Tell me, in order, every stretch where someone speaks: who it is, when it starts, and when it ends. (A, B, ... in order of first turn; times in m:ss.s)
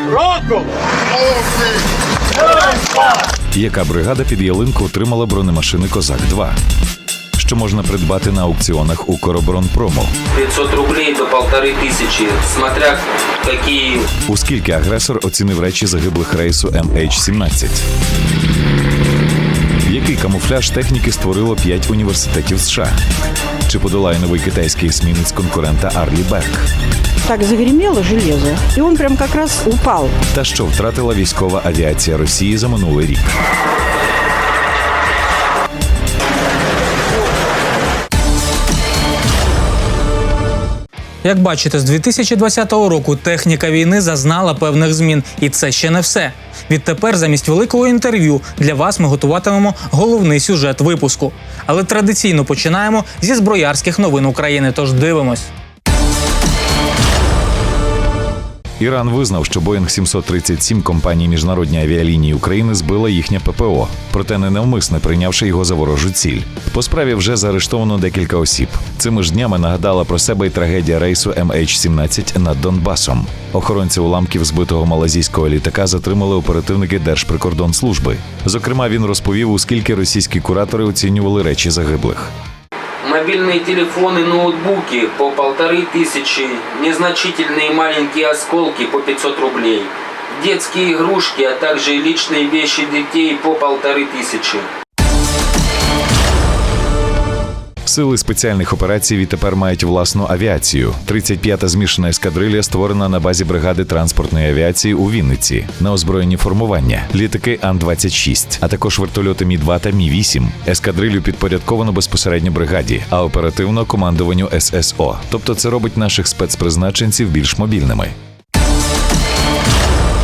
0:03.5-0:06.6 A
0:07.4-0:10.1 A
0:10.3-0:14.1 B
0:14.2-0:17.9 A
0:19.8-0:23.0 A
0:23.6-0:26.7 A
0:27.2-0:30.2 C
0:30.3-0:33.4 A
0:41.2-0:55.5 D
0:58.8-1:22.3 A
1:23.0-1:34.7 B
1:37.8-1:58.1 A